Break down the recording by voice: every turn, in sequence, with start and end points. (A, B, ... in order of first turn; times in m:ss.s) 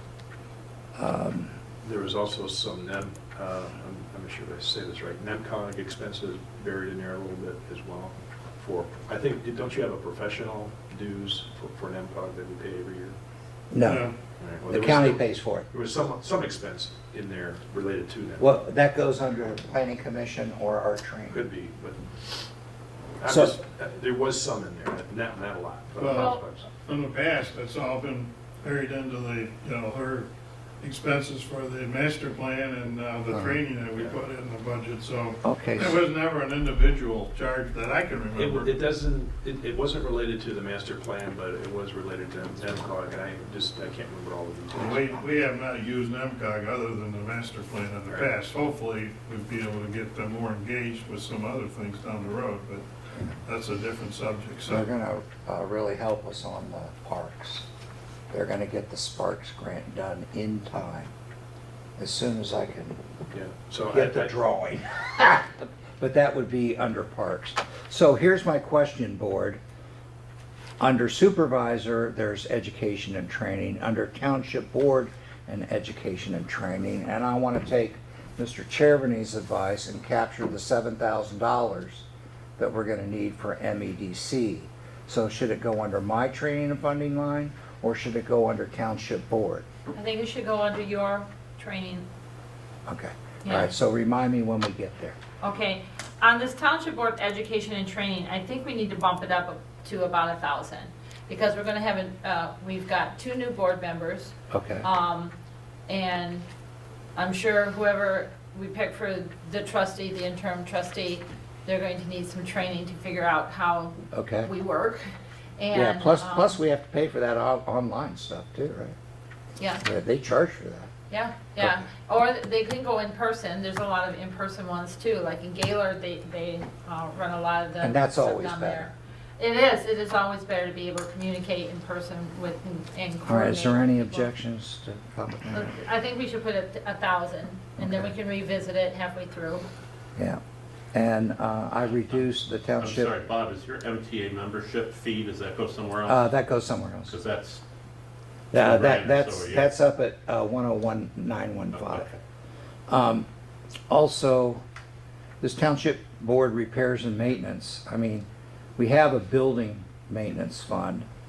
0:01.0-0:01.6 A
0:01.8-0:13.2 B
0:13.7-0:14.1 A
0:13.8-0:14.1 C
0:14.4-0:18.6 B
0:14.7-0:15.7 A
0:18.4-0:21.4 A
0:21.3-0:22.2 B
0:23.2-0:26.7 B
0:23.3-0:23.5 A
0:26.0-0:30.3 C
0:26.1-0:26.4 D
0:30.8-0:38.7 C
0:33.3-0:33.6 A
0:35.4-0:36.0 A
0:38.4-0:45.2 B
0:44.7-0:52.8 C
0:53.4-0:54.8 C
0:54.7-0:57.6 A
0:58.3-1:01.1 A
1:02.0-1:03.0 A
1:03.3-1:04.3 B
1:03.9-1:09.6 A
1:10.8-1:22.0 A
1:22.6-1:29.6 A
1:29.9-1:32.0 D
1:32.8-1:35.2 A
1:33.4-1:33.7 D
1:35.4-1:45.3 D
1:44.5-1:44.8 A
1:45.9-1:46.4 D
1:47.2-1:55.0 D
1:54.1-1:54.5 A
1:55.6-1:56.6 D
1:55.7-1:59.0 A
1:59.6-1:59.8 D
1:59.8-2:00.9 A
2:01.1-2:14.3 D
2:07.8-2:08.9 A
2:13.2-2:15.7 A
2:15.5-2:19.6 D
2:17.8-2:18.1 A
2:20.9-2:23.1 A
2:22.8-2:26.3 E
2:26.1-2:27.1 A
2:27.0-2:27.6 E
2:28.5-2:29.7 E
2:28.5-2:32.0 A
2:31.7-2:32.2 E
2:32.9-2:33.3 A
2:33.9-2:34.6 A
2:35.4-2:38.3 A
2:38.8-2:41.1 A